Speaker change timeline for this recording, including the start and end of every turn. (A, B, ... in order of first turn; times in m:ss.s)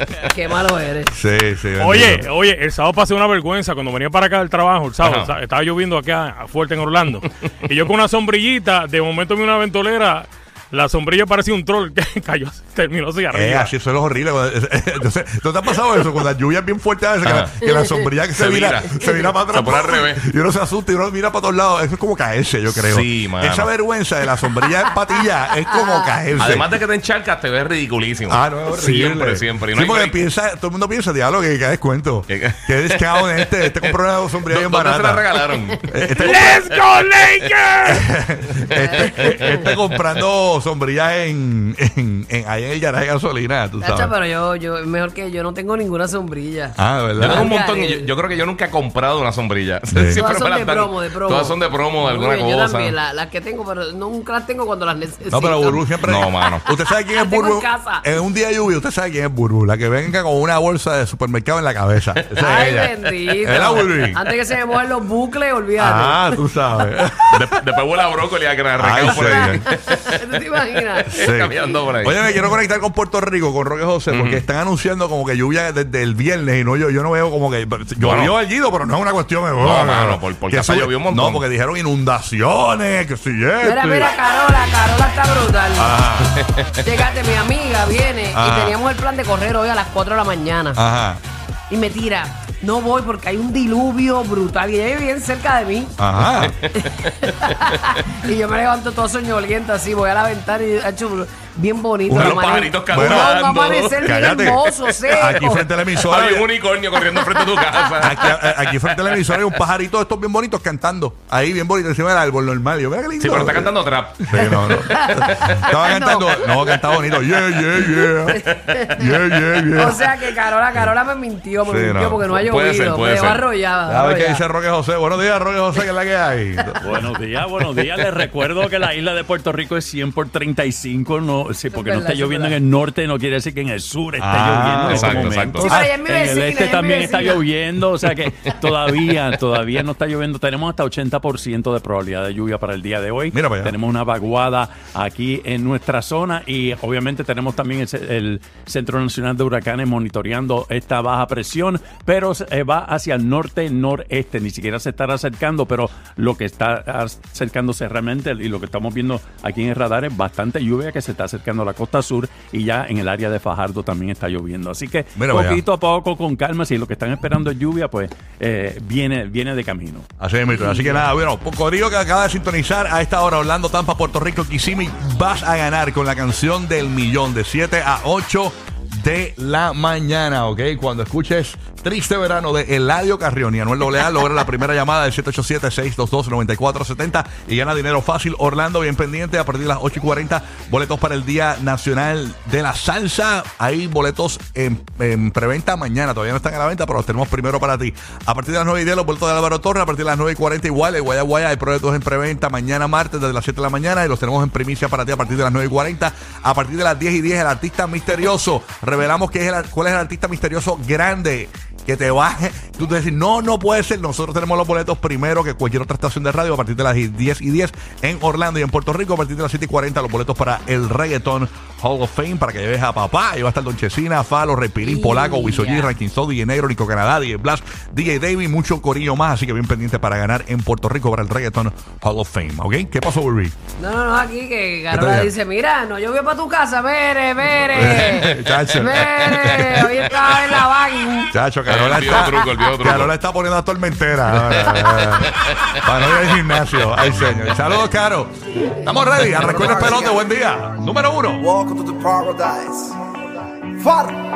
0:00.2-0:01.2 A
0:01.1-0:02.3 B
0:01.8-0:13.7 C
0:05.0-0:05.3 D
0:13.3-0:26.7 B
0:17.2-0:17.6 D
0:18.3-0:19.0 D
0:19.5-0:20.2 D
0:22.7-0:23.7 D
0:26.4-0:30.2 D
0:28.3-0:35.2 B
0:32.3-0:33.9 D
0:34.5-0:36.0 D
0:35.8-0:36.7 B
0:37.8-0:44.1 B
0:38.8-0:39.5 A
0:38.8-0:39.5 D
0:43.8-0:46.8 A
0:46.8-0:47.5 B
0:47.2-0:53.0 D
0:47.3-0:48.1 A
0:49.9-0:50.2 B
0:50.1-0:58.0 A
0:55.3-1:04.2 B
0:56.0-0:56.7 D
1:02.4-1:06.9 A
1:05.8-1:07.5 B
1:07.3-1:10.2 D
1:08.8-1:09.6 B
1:09.1-1:11.3 A
1:11.1-1:12.2 D
1:11.1-1:24.1 B
1:14.1-1:14.4 D
1:18.0-1:18.3 D
1:19.6-1:21.4 D
1:23.6-1:26.0 A
1:25.8-1:26.3 B
1:26.8-1:30.8 A
1:28.3-1:28.8 B
1:30.8-1:31.2 B
1:31.7-1:35.9 A
1:36.0-1:36.6 B
1:36.7-1:46.0 A
1:37.0-1:38.0 D
1:42.1-1:43.4 B
1:42.1-1:45.5 D
1:44.0-1:46.5 B
1:46.0-1:49.4 D
1:47.4-1:47.8 A
1:48.0-1:53.8 B
1:53.2-1:56.1 D
1:54.3-2:00.0 B
1:54.4-1:56.8 A
1:58.3-2:04.4 A
1:58.5-1:58.8 D
2:01.7-2:02.2 B
2:02.3-2:03.4 D
2:03.9-2:06.8 B
2:06.8-2:50.1 E
2:11.7-2:12.6 A
2:14.2-2:15.9 B
2:14.9-2:15.7 D
2:15.6-2:17.4 A
2:18.3-2:19.2 D
2:23.3-2:23.7 B
2:45.2-2:45.6 B
2:50.2-3:53.5 B
2:50.5-2:50.8 A
3:44.8-3:45.9 A
3:53.8-4:01.3 A
3:54.9-3:55.3 B
3:57.7-4:00.1 B
3:58.1-3:58.6 D
3:59.3-3:59.6 D
4:01.3-4:11.5 B
4:01.7-4:03.1 D
4:02.1-4:02.4 A
4:05.5-4:05.8 D
4:09.5-4:10.2 F
4:11.4-4:13.0 F
4:13.8-4:14.2 F